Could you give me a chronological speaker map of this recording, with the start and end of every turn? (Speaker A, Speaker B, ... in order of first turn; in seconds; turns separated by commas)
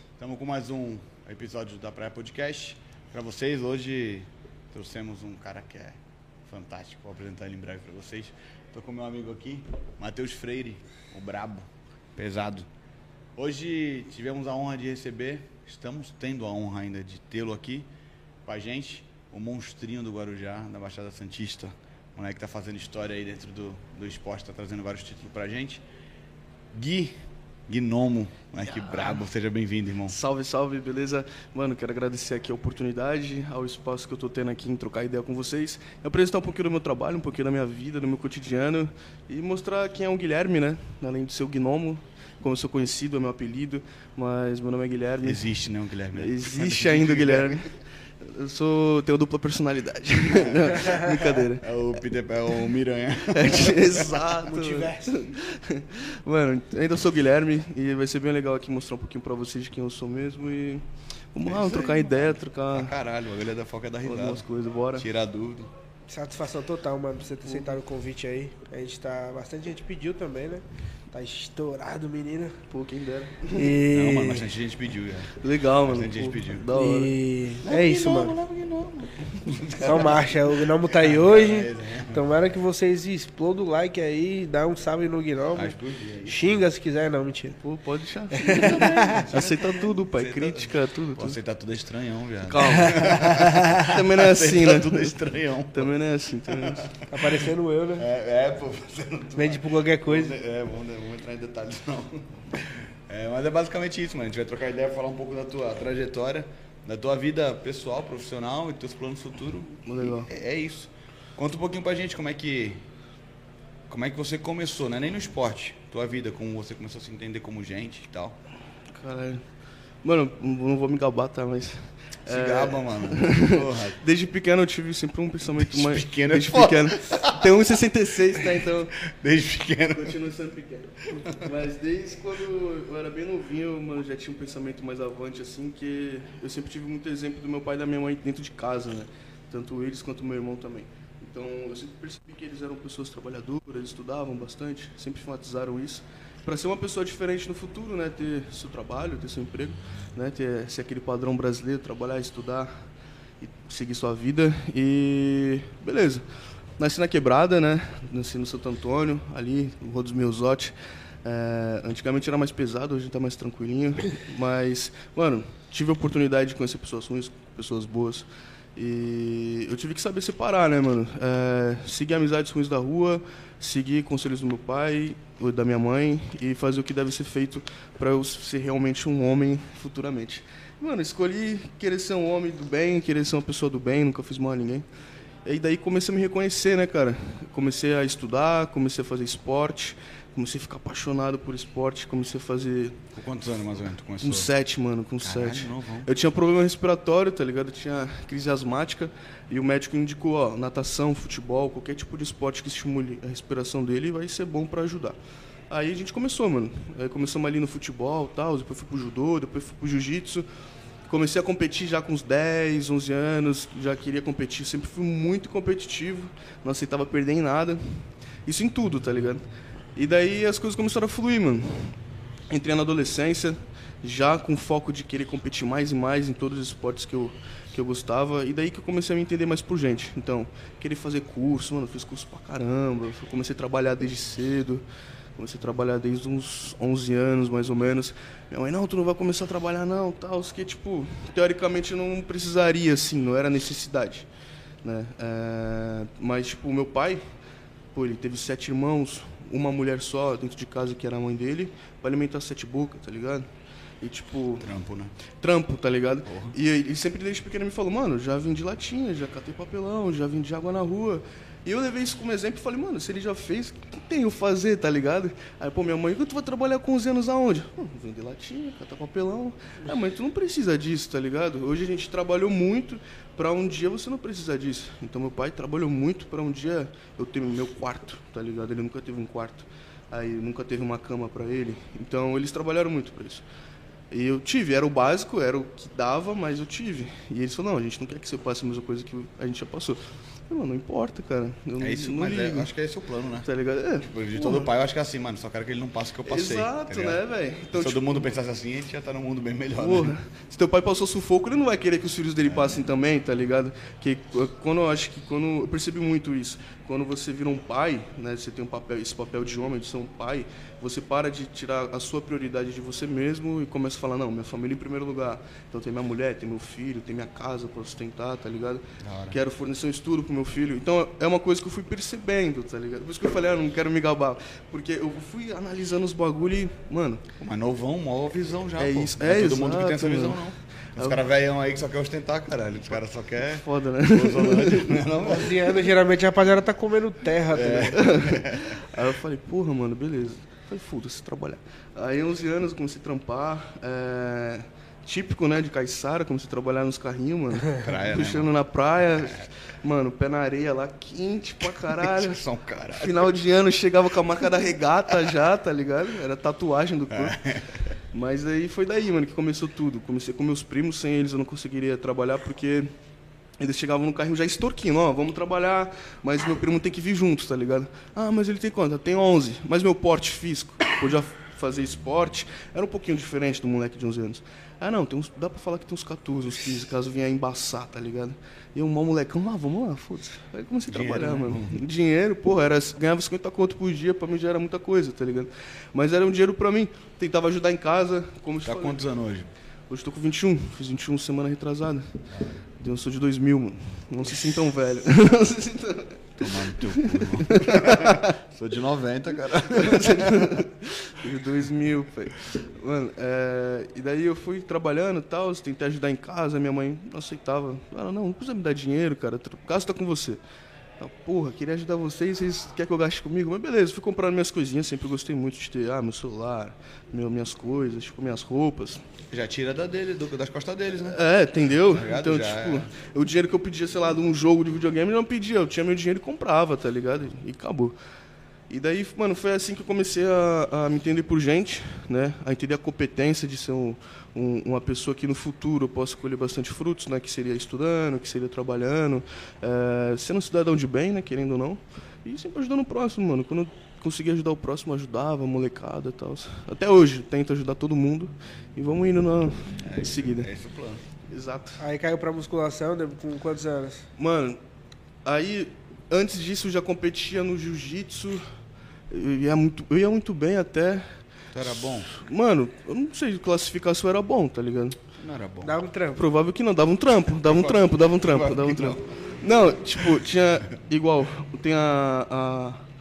Speaker A: 0.2-12.7, Speaker A: 13.4-17.9, Speaker A: 18.4-25.8, Speaker A: 26.7-27.1, Speaker A: 27.7-30.2, Speaker B: 28.7-29.1, Speaker B: 30.1-45.5, Speaker A: 45.2-47.6, Speaker B: 46.1-51.7, Speaker A: 50.3-54.3, Speaker B: 53.3-62.9, Speaker C: 54.5-55.1, Speaker A: 61.4-65.7, Speaker B: 64.0-65.1, Speaker C: 66.1-72.6, Speaker B: 72.7-73.8, Speaker C: 73.5-74.5, Speaker A: 73.9-76.7, Speaker B: 75.4-77.1, Speaker C: 76.7-78.3, Speaker A: 77.6-82.2, Speaker C: 79.8-87.6, Speaker A: 85.5-86.7, Speaker B: 87.6-91.4, Speaker C: 88.4-89.2, Speaker A: 88.5-95.9, Speaker B: 92.5-95.2, Speaker C: 92.7-93.8, Speaker B: 95.7-97.0, Speaker A: 96.5-112.8, Speaker C: 97.1-98.1, Speaker C: 99.4-100.3, Speaker B: 109.8-110.3, Speaker A: 113.9-118.4, Speaker B: 118.9-119.5, Speaker B: 120.0-128.9, Speaker A: 122.3-124.0, Speaker A: 125.6-127.8, Speaker A: 128.3-130.2, Speaker B: 129.9-152.9, Speaker B: 153.4-156.3, Speaker B: 156.8-184.9, Speaker B: 185.4-193.0, Speaker A: 193.2-194.5, Speaker B: 194.2-205.2, Speaker A: 195.2-196.1, Speaker B: 205.7-210.4, Speaker B: 211.1-219.4, Speaker B: 220.0-222.0, Speaker B: 222.5-234.8, Speaker B: 235.4-244.3, Speaker B: 244.8-247.2, Speaker B: 247.9-253.5, Speaker B: 254.0-254.7, Speaker A: 254.6-255.1, Speaker B: 255.4-283.4, Speaker A: 256.3-256.5, Speaker B: 284.1-292.7, Speaker A: 291.8-293.5, Speaker B: 293.4-294.7, Speaker A: 294.0-297.2, Speaker B: 296.3-298.3, Speaker A: 297.8-300.1, Speaker B: 299.8-327.2, Speaker A: 319.0-319.4, Speaker A: 327.4-335.7, Speaker B: 328.8-331.2, Speaker B: 333.3-335.1, Speaker C: 335.2-338.0, Speaker A: 337.5-338.8, Speaker B: 337.9-352.4, Speaker A: 347.8-348.5, Speaker A: 351.9-353.2, Speaker B: 352.9-357.4, Speaker A: 357.1-357.9, Speaker B: 358.1-362.9, Speaker B: 363.6-389.1, Speaker A: 380.9-381.8, Speaker A: 388.6-389.5, Speaker B: 389.9-392.2, Speaker A: 392.3-392.6, Speaker B: 392.8-398.4, Speaker A: 396.4-400.6, Speaker B: 399.7-410.4, Speaker B: 411.0-419.1, Speaker A: 419.3-421.2, Speaker B: 421.1-428.0, Speaker A: 421.9-422.9, Speaker B: 428.7-450.5, Speaker A: 449.8-451.1, Speaker B: 451.3-451.8, Speaker C: 451.8-454.1, Speaker B: 454.2-454.6, Speaker B: 455.2-458.4, Speaker B: 459.1-461.2, Speaker A: 461.5-462.1, Speaker B: 462.0-465.0, Speaker A: 465.2-465.7, Speaker C: 465.6-466.2, Speaker B: 466.2-472.8, Speaker A: 467.4-469.1